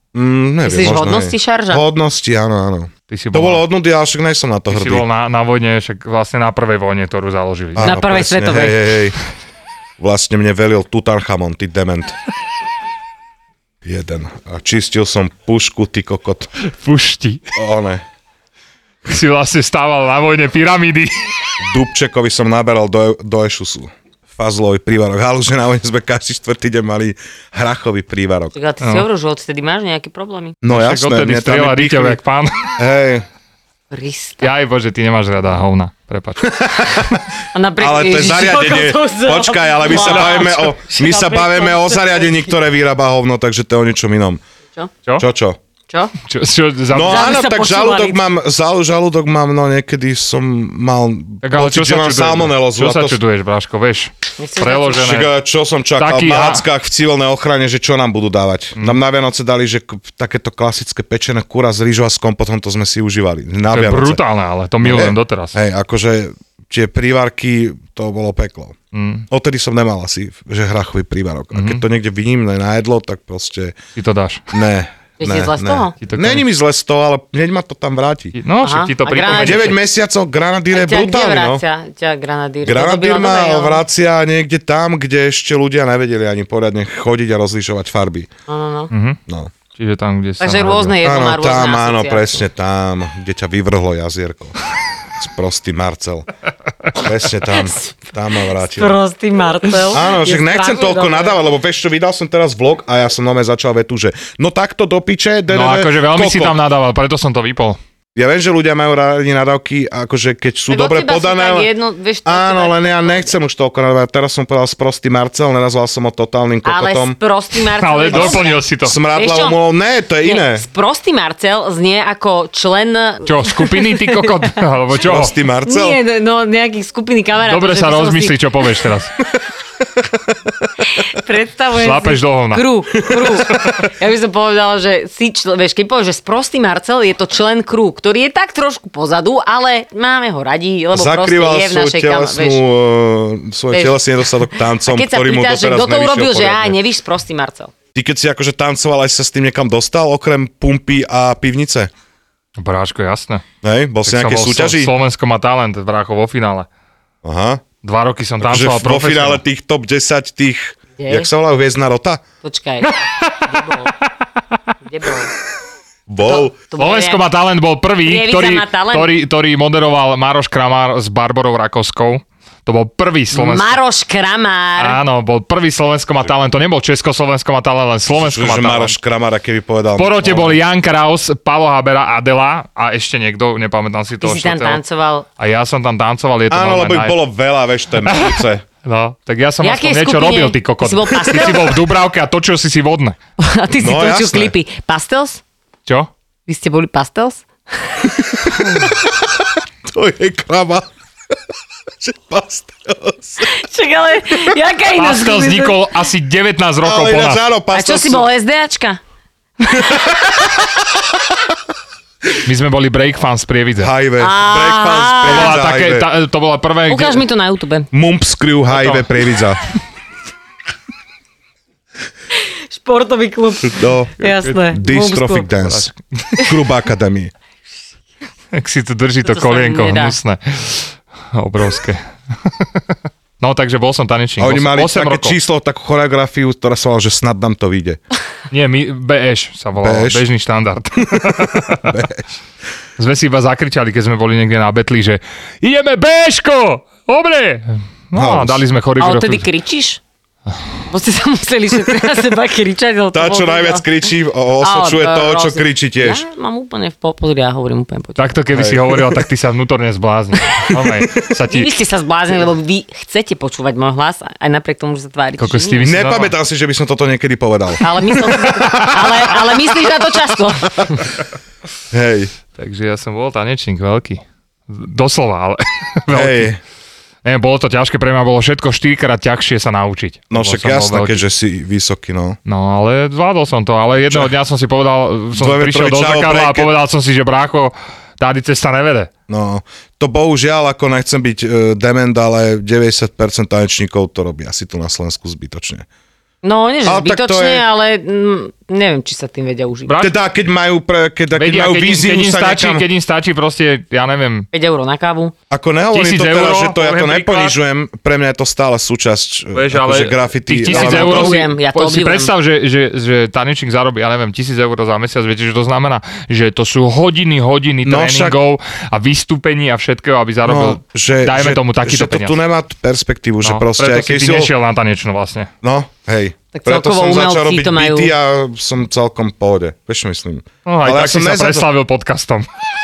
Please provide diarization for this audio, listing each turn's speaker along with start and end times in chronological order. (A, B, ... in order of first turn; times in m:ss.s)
0:00.1-0:05.0 A
0:00.6-0:01.8 B
0:03.1-0:03.6 C
0:04.7-0:08.0 C
0:07.8-0:09.2 A
0:07.8-0:08.8 B
0:10.0-0:12.2 A
0:13.8-0:16.5 A
0:16.7-0:17.4 C
0:17.5-0:18.0 A
0:19.0-0:21.2 C
0:21.6-0:28.5 A
0:28.5-0:30.6 B
0:30.6-0:32.2 A
0:30.7-0:32.7 C
0:32.7-0:33.2 A
0:33.9-0:34.5 B
0:34.4-0:36.5 C
0:36.4-0:37.2 A
0:37.5-0:42.3 B
0:37.8-0:44.4 A
0:40.0-0:40.4 C
0:45.2-0:45.6 A
0:46.2-0:47.4 C
0:46.9-0:53.2 A
0:47.0-0:48.2 B
0:51.4-0:55.3 C
0:54.4-0:55.0 B
0:54.9-1:04.2 A
0:56.0-0:56.6 C
1:03.7-1:05.6 C
1:04.8-1:08.8 A
1:08.9-1:09.3 C
1:09.3-1:13.8 A
1:11.5-1:11.8 C
1:14.0-1:14.4 C
1:14.5-1:18.4 A
1:15.2-1:15.9 B
1:16.0-1:16.4 C
1:18.3-1:19.7 C
1:18.6-1:19.8 B
1:19.3-1:21.6 A
1:20.7-1:23.8 B
1:22.6-1:28.3 A
1:28.5-1:28.9 B
1:28.9-1:29.2 C
1:29.7-1:31.0 C
1:30.4-1:32.4 B
1:31.0-1:34.6 A
1:35.2-1:36.3 A
1:36.9-1:39.0 A
1:37.6-1:37.9 B
1:38.6-1:41.4 B
1:39.9-1:46.6 A
1:45.5-1:47.8 C
1:48.2-1:51.7 A
1:50.7-1:53.3 B
1:52.2-1:57.2 A
1:56.6-1:59.6 B
1:57.8-1:59.0 C
1:58.1-2:00.6 A
2:00.2-2:04.5 B
2:03.2-2:05.3 C
2:05.0-2:06.0 A
2:05.6-2:08.4 B
2:07.4-2:09.1 C
2:10.9-2:22.6 B
2:11.8-2:12.6 C
2:20.9-2:26.8 A
2:23.7-2:24.0 B
2:24.8-2:27.7 B
2:27.9-2:31.9 A
2:32.6-2:33.4 C
2:33.6-2:34.9 A
2:34.0-2:36.7 C
2:37.2-2:37.6 A
2:37.8-2:39.4 C
2:38.4-2:42.2 A
2:41.0-2:41.3 B
2:42.4-2:42.9 B
2:43.4-2:43.9 B
2:44.8-2:45.3 B
2:46.1-2:46.5 A
2:46.2-2:47.2 B
2:46.8-2:53.8 C
2:48.0-2:49.1 B
2:53.3-2:55.0 B
2:54.8-2:59.0 C
2:58.1-3:00.6 A
3:00.0-3:04.8 C
3:04.2-3:05.2 B
3:05.4-3:07.2 C
3:06.5-3:08.6 A
3:08.0-3:13.2 C
3:09.6-3:11.7 B
3:13.4-3:15.4 B
3:13.8-3:14.5 A
3:16.5-3:17.9 B
3:18.5-3:19.1 A
3:19.8-3:20.9 A
3:22.0-3:23.5 A
3:23.5-3:25.8 B
3:24.9-3:27.4 C
3:26.8-3:28.2 A
3:27.7-3:29.0 B
3:29.6-3:30.1 B
3:29.8-3:30.4 A
3:32.4-3:33.9 C
3:33.8-3:36.1 A
3:34.2-3:35.6 B
3:35.2-3:37.2 C
3:36.9-3:37.9 B
3:37.9-3:39.6 A
3:38.7-3:39.1 C
3:42.5-3:45.5 B
3:43.7-3:44.2 A
3:44.2-3:44.7 C
3:44.7-3:47.3 A
3:45.6-3:46.3 C
3:48.5-3:52.8 C
3:49.2-3:50.2 B
3:53.4-3:55.4 C
3:54.4-3:58.0 A
3:58.5-4:01.9 C
3:59.8-4:00.2 A
4:01.2-4:02.4 A
4:03.0-4:09.5 C
4:08.1-4:08.6 A
4:09.0-4:10.0 B
4:10.9-4:13.8 B
4:13.1-4:16.2 A
4:14.6-4:18.2 B
4:18.2-4:21.7 C
4:18.5-4:19.2 A
4:21.5-4:25.9 B
4:25.4-4:26.3 C
4:25.8-4:27.8 A
4:27.8-4:31.0 B
4:28.6-4:28.9 A
4:31.9-4:32.3 A
4:32.6-4:36.5 C
4:36.1-4:36.6 A
4:37.2-4:41.2 C
4:40.3-4:42.4 A
4:42.4-4:49.1 C
4:45.3-4:46.7 A
4:49.3-4:55.8 A
4:56.4-4:59.9 B
4:56.8-4:57.6 A
4:59.9-5:00.1 C
5:00.0-5:02.8 A
5:01.3-5:04.5 C
5:04.5-5:05.3 B
5:05.5-5:11.4 A
5:05.9-5:07.6 C
5:09.5-5:22.4 C
5:10.7-5:12.3 B
5:17.8-5:18.4 A
5:20.4-5:24.5 A
5:23.4-5:25.5 C
5:25.6-5:31.7 A
5:26.5-5:28.1 B
5:30.6-5:32.5 C